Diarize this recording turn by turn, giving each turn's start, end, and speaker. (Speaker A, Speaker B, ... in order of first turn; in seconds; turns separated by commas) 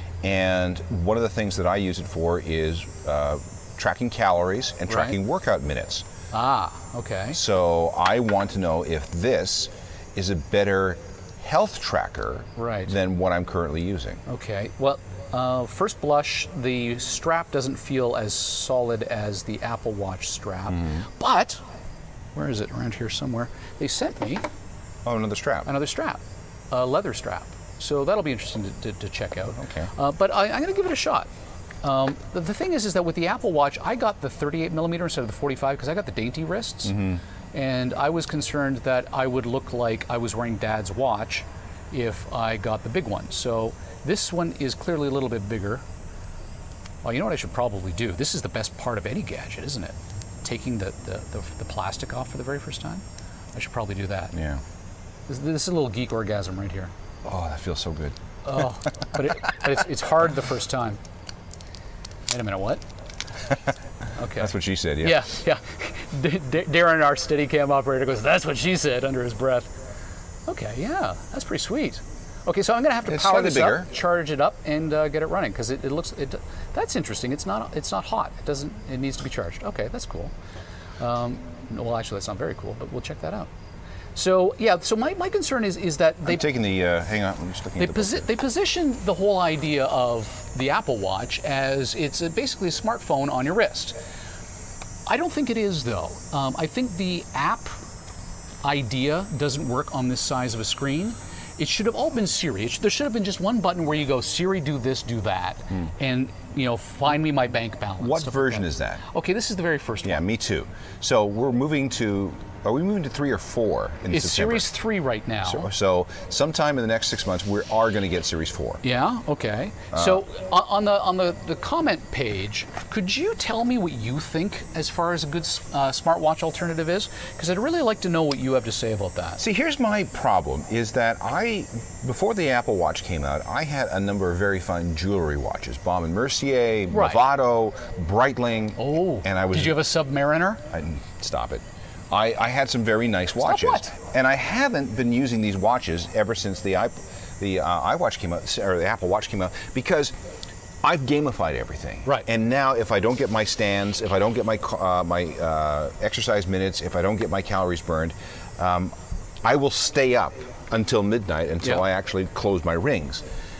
Speaker A: 0.2-6.0, Speaker B: 4.9-5.2, Speaker B: 6.3-7.4, Speaker A: 7.3-14.2, Speaker B: 12.6-12.9, Speaker B: 14.3-21.6, Speaker A: 20.7-21.1, Speaker B: 22.3-24.4, Speaker A: 25.0-25.7, Speaker B: 25.6-26.2, Speaker B: 26.7-31.3, Speaker A: 29.6-29.9, Speaker B: 31.8-36.9, Speaker A: 36.8-37.2, Speaker B: 37.5-45.8, Speaker B: 47.0-53.0, Speaker B: 53.5-54.3, Speaker A: 54.3-54.6, Speaker B: 55.3-56.9, Speaker A: 57.2-58.1, Speaker B: 58.4-61.0, Speaker B: 62.3-62.8, Speaker B: 64.2-69.7, Speaker A: 64.4-65.3, Speaker B: 70.5-80.3, Speaker A: 73.1-73.9, Speaker B: 81.0-83.5, Speaker B: 84.2-86.4, Speaker A: 86.2-88.3, Speaker B: 87.8-94.0, Speaker B: 95.1-97.7, Speaker B: 98.6-110.2, Speaker A: 108.0-109.0, Speaker A: 110.0-114.7, Speaker B: 114.1-115.7, Speaker A: 115.4-118.8, Speaker B: 118.8-129.4, Speaker A: 119.9-120.2, Speaker A: 129.4-139.8, Speaker B: 136.9-137.2, Speaker B: 138.8-140.6, Speaker A: 140.7-150.1, Speaker B: 143.4-143.9, Speaker A: 150.8-163.2